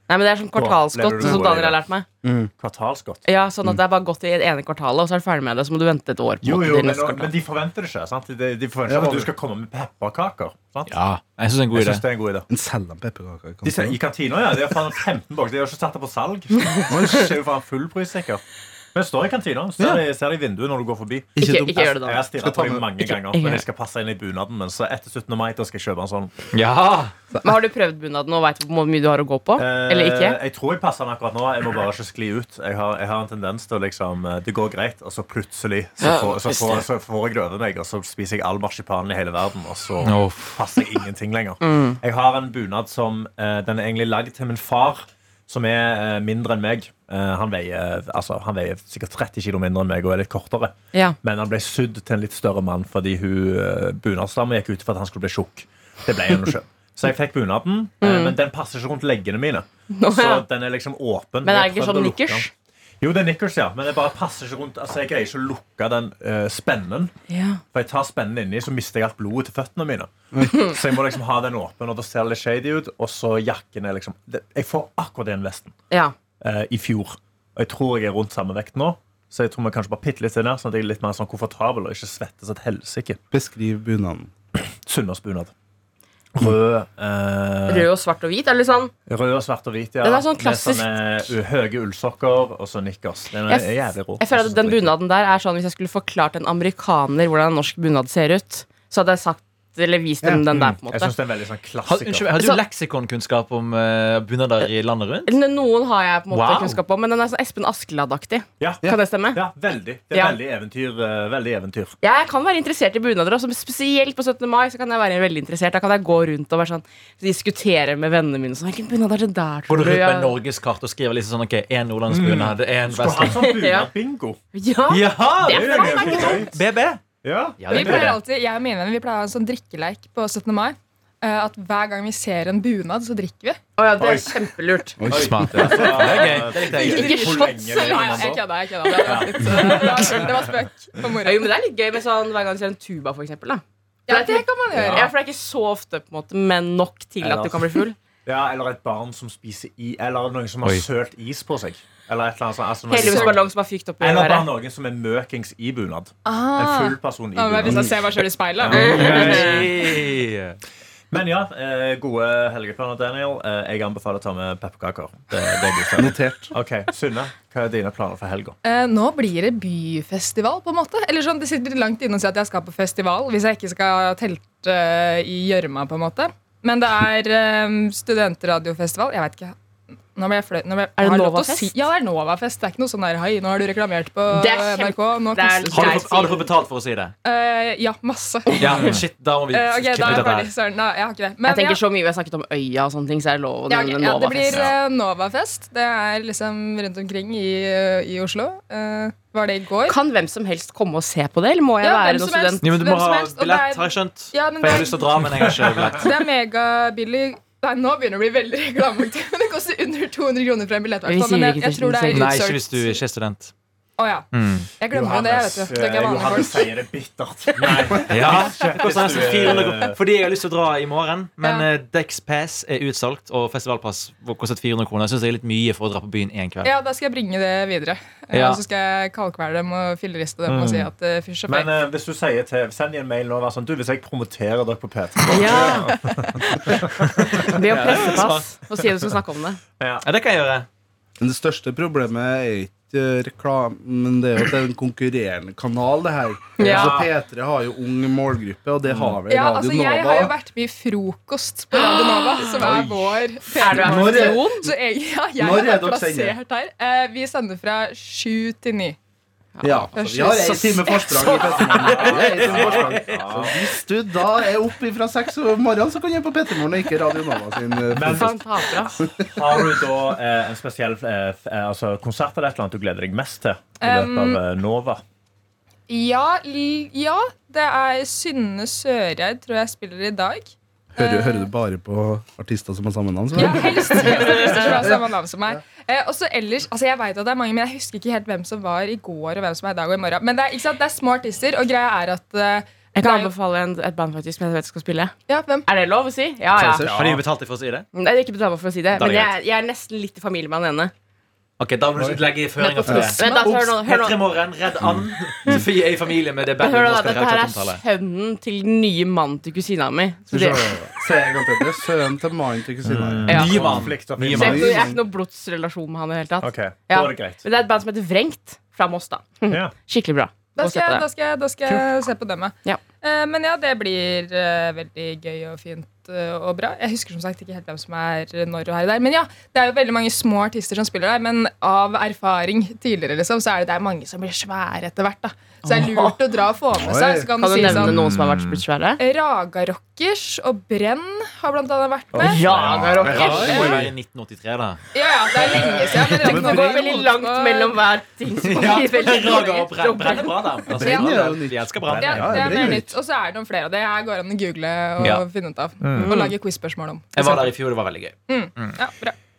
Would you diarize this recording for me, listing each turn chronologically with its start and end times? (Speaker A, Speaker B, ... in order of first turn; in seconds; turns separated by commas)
Speaker A: 0.1-2.0, Speaker B: 0.5-1.8, Speaker C: 2.2-2.5, Speaker B: 2.6-3.2, Speaker A: 3.2-7.3, Speaker B: 6.4-10.9, Speaker C: 8.9-9.3, Speaker D: 10.9-12.0, Speaker B: 11.7-12.4, Speaker C: 12.5-14.0, Speaker B: 13.6-18.4, Speaker C: 16.9-17.3, Speaker B: 18.9-26.3, Speaker C: 21.4-22.9, Speaker A: 21.4-22.2, Speaker A: 23.0-23.6, Speaker D: 26.5-27.1, Speaker A: 27.4-30.4, Speaker B: 29.6-62.5, Speaker D: 40.0-40.6, Speaker A: 41.6-42.0, Speaker A: 58.0-58.4, Speaker A: 59.9-60.4, Speaker A: 61.4-62.5, Speaker B: 63.0-67.1, Speaker A: 67.3-67.6, Speaker B: 67.7-75.7, Speaker B: 76.4-83.2, Speaker C: 83.3-84.3, Speaker B: 84.5-85.5, Speaker B: 86.3-87.9, Speaker A: 87.7-88.9, Speaker B: 89.1-94.9, Speaker A: 90.0-90.9, Speaker A: 93.5-101.1, Speaker B: 100.5-102.3, Speaker D: 101.8-105.3, Speaker A: 105.2-109.4, Speaker D: 106.3-106.8, Speaker B: 108.6-111.9, Speaker A: 110.1-110.4, Speaker A: 112.0-120.4, Speaker D: 119.7-123.6, Speaker B: 122.1-124.4, Speaker A: 123.5-123.9, Speaker A: 124.5-126.5, Speaker D: 124.9-127.0, Speaker B: 125.4-126.6, Speaker B: 127.2-128.2, Speaker D: 127.6-128.2, Speaker E: 127.7-133.6, Speaker A: 133.8-135.0, Speaker B: 134.0-134.4, Speaker C: 135.0-135.8, Speaker B: 135.1-140.3, Speaker D: 135.1-137.4, Speaker A: 135.8-140.3, Speaker E: 136.9-141.5, Speaker A: 141.2-147.9, Speaker E: 144.1-145.1, Speaker B: 144.7-145.0, Speaker B: 147.2-153.4, Speaker A: 152.9-154.5, Speaker B: 154.0-159.6, Speaker E: 156.2-159.6, Speaker D: 158.7-160.6, Speaker A: 158.7-159.5, Speaker B: 161.1-168.6, Speaker D: 165.3-166.0, Speaker C: 166.0-166.5, Speaker E: 168.6-179.5, Speaker E: 180.1-186.1, Speaker A: 181.0-181.8, Speaker A: 184.3-186.5, Speaker D: 185.7-187.1, Speaker E: 187.2-191.8, Speaker D: 188.5-190.5, Speaker A: 191.4-194.6, Speaker E: 193.7-200.0, Speaker A: 199.8-202.6, Speaker E: 201.8-213.0, Speaker D: 202.6-206.1, Speaker A: 211.0-212.3, Speaker D: 212.1-213.5, Speaker E: 214.0-216.7, Speaker D: 214.3-214.7, Speaker B: 214.9-220.0, Speaker D: 218.1-226.7, Speaker E: 218.6-219.2, Speaker E: 221.4-221.7, Speaker E: 226.6-231.7, Speaker D: 228.3-228.6, Speaker B: 230.4-230.9, Speaker B: 231.5-238.2, Speaker A: 235.3-235.9, Speaker A: 237.3-239.6, Speaker D: 237.6-238.5, Speaker D: 240.0-240.7, Speaker C: 241.2-250.3, Speaker A: 246.6-246.9, Speaker B: 246.6-247.1, Speaker B: 248.9-249.2, Speaker E: 249.3-259.0, Speaker A: 251.8-252.5, Speaker B: 252.6-253.2, Speaker A: 253.5-254.7, Speaker C: 253.6-254.5, Speaker C: 255.4-256.4, Speaker A: 259.6-259.9, Speaker C: 259.6-268.4, Speaker E: 259.9-261.3, Speaker B: 261.4-263.5, Speaker D: 261.9-263.4, Speaker B: 267.9-268.4, Speaker A: 268.1-268.9, Speaker C: 269.0-269.7, Speaker B: 269.2-275.0, Speaker E: 273.8-274.4, Speaker E: 275.9-281.5, Speaker C: 280.9-285.0, Speaker E: 283.3-293.3, Speaker A: 292.9-295.1, Speaker E: 295.3-295.6, Speaker A: 295.6-296.9, Speaker C: 296.5-297.2, Speaker B: 296.8-297.2, Speaker D: 296.9-297.9, Speaker A: 297.9-300.9, Speaker D: 298.9-299.3, Speaker D: 301.6-307.8, Speaker A: 302.6-304.2, Speaker C: 302.9-303.1, Speaker E: 302.9-303.6, Speaker A: 306.6-310.7, Speaker C: 310.3-315.0, Speaker B: 312.8-314.8, Speaker A: 313.3-313.6, Speaker D: 313.3-314.9, Speaker A: 314.3-321.0, Speaker B: 316.4-317.4, Speaker B: 319.5-319.7, Speaker E: 320.6-338.0, Speaker A: 335.6-336.2, Speaker C: 336.7-337.4, Speaker A: 337.4-339.0, Speaker B: 337.6-338.6, Speaker E: 339.0-342.4, Speaker B: 342.1-343.4, Speaker A: 342.2-343.8, Speaker D: 342.2-344.8, Speaker E: 343.1-343.9, Speaker C: 343.2-343.7, Speaker E: 344.9-347.8, Speaker B: 346.0-346.5, Speaker A: 346.1-350.6, Speaker D: 348.4-352.5, Speaker C: 350.7-352.9, Speaker E: 350.8-351.2, Speaker B: 351.8-352.8, Speaker E: 352.0-357.5, Speaker B: 355.8-356.2, Speaker A: 355.9-356.3, Speaker D: 357.1-358.8, Speaker E: 358.3-359.1